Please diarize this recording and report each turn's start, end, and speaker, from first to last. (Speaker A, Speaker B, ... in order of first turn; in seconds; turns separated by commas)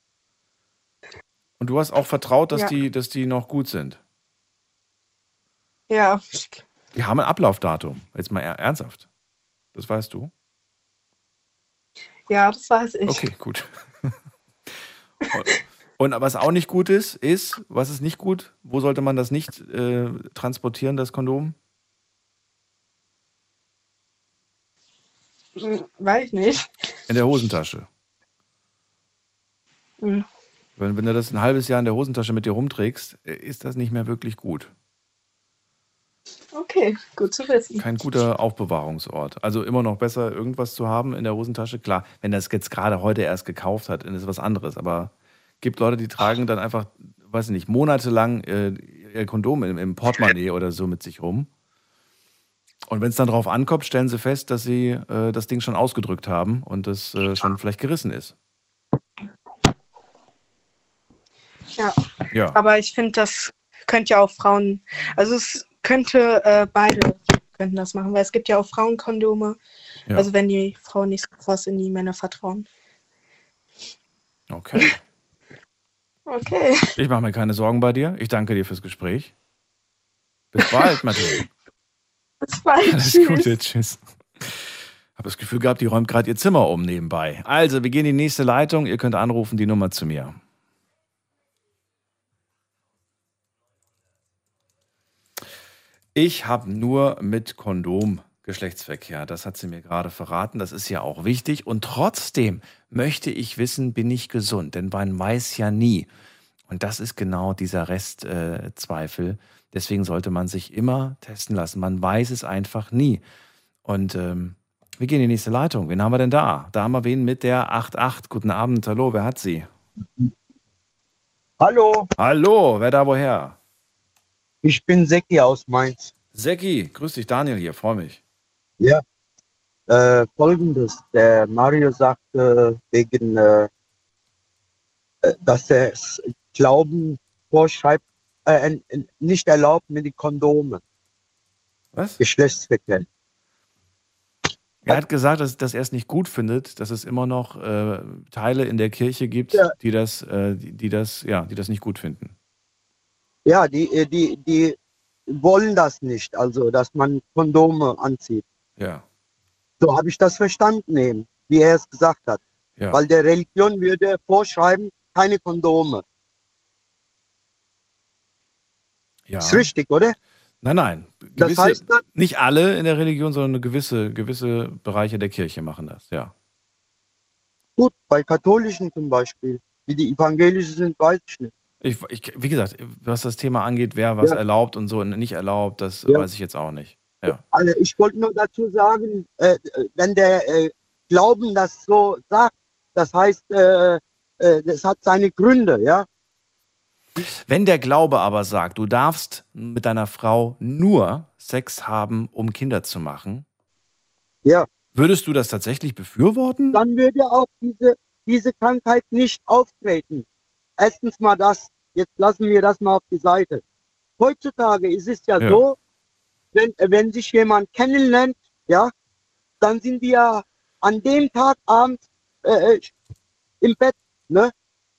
Speaker A: 1.6-4.0, Speaker B: 5.9-6.6, Speaker A: 6.9-9.1, Speaker A: 9.7-10.3, Speaker B: 12.3-13.3, Speaker A: 13.1-14.2, Speaker A: 15.3-21.6, Speaker B: 25.6-26.7, Speaker A: 27.1-27.9, Speaker B: 30.0-30.2, Speaker A: 30.8-34.7, Speaker B: 36.5-37.9, Speaker A: 37.8-51.5, Speaker A: 52.9-58.3, Speaker A: 62.3-62.6, Speaker B: 62.5-69.6, Speaker B: 70.1-72.7, Speaker A: 74.5-75.0, Speaker B: 76.3-76.9, Speaker A: 77.0-79.3, Speaker A: 80.5-81.4, Speaker B: 82.4-83.5, Speaker A: 82.8-90.4, Speaker A: 96.1-106.1, Speaker A: 106.7-113.2, Speaker A: 113.8-119.7, Speaker C: 121.6-122.1, Speaker A: 122.2-123.6, Speaker C: 124.6-126.1, Speaker A: 126.3-128.2, Speaker C: 129.9-133.7, Speaker C: 135.2-140.8, Speaker A: 141.9-142.2, Speaker C: 142.2-143.1, Speaker A: 144.8-152.3, Speaker C: 153.4-154.8, Speaker C: 155.3-158.4, Speaker A: 158.8-159.0, Speaker C: 159.8-162.4, Speaker C: 162.9-166.0, Speaker A: 169.3-169.7, Speaker C: 169.4-170.1, Speaker A: 170.6-176.3, Speaker C: 171.4-172.0, Speaker C: 177.8-181.5, Speaker A: 181.8-187.4, Speaker C: 187.3-196.1, Speaker A: 197.2-203.4, Speaker A: 204.9-206.8, Speaker C: 206.7-210.2, Speaker C: 210.8-213.6, Speaker C: 214.2-215.8, Speaker C: 216.5-218.9, Speaker C: 219.6-222.9, Speaker C: 223.6-224.5